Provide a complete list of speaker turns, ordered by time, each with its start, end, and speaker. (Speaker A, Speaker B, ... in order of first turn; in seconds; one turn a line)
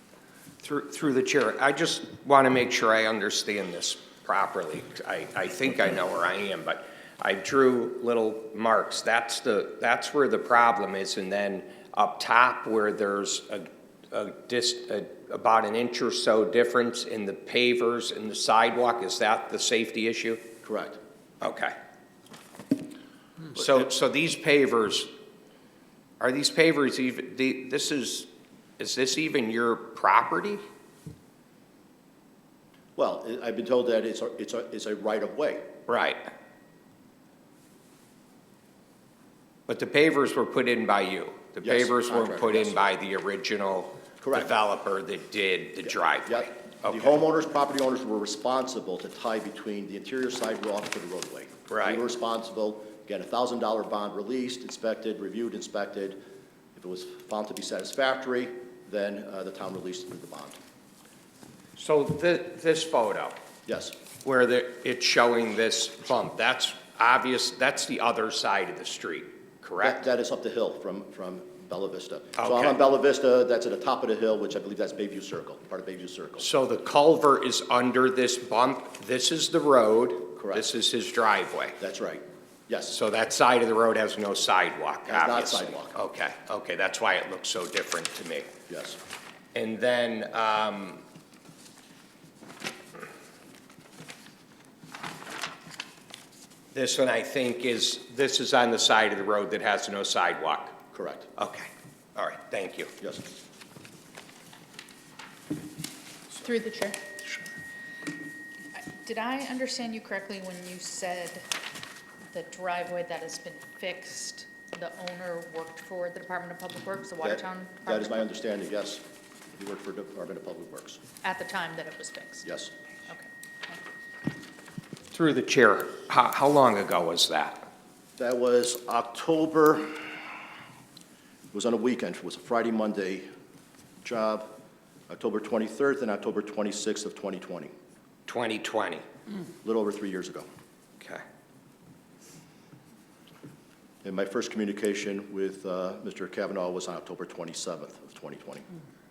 Speaker A: 0.6-20.5
Speaker B: 20.6-21.0
Speaker A: 21.4-21.7
Speaker A: 23.5-25.1
Speaker A: 26.2-30.6
Speaker B: 33.0-35.7
Speaker A: 35.9-36.3
Speaker A: 39.7-47.1
Speaker B: 41.6-42.9
Speaker B: 44.2-44.5
Speaker B: 45.9-56.2
Speaker A: 51.7-52.0
Speaker B: 56.8-60.6
Speaker A: 61.8-63.4
Speaker B: 63.6-64.0
Speaker A: 64.2-70.0
Speaker B: 69.8-76.5
Speaker A: 72.4-72.8
Speaker A: 76.4-81.8
Speaker B: 80.4-80.7
Speaker B: 81.8-83.0
Speaker A: 82.9-88.5
Speaker B: 85.0-86.0
Speaker B: 88.7-89.0
Speaker A: 89.5-91.0
Speaker A: 96.7-100.8
Speaker B: 100.9-101.3
Speaker A: 101.4-102.9
Speaker C: 106.3-107.0
Speaker C: 108.7-111.4
Speaker C: 112.3-118.3
Speaker B: 117.2-119.0
Speaker B: 119.5-121.0
Speaker C: 121.2-122.5
Speaker B: 122.4-122.7
Speaker C: 123.1-123.8
Speaker A: 125.1-127.7
Speaker B: 128.2-130.2
Speaker B: 131.5-133.3
Speaker B: 134.0-134.5
Speaker B: 135.1-137.7
Speaker A: 138.2-139.0
Speaker B: 139.6-140.4
Speaker B: 144.0-148.7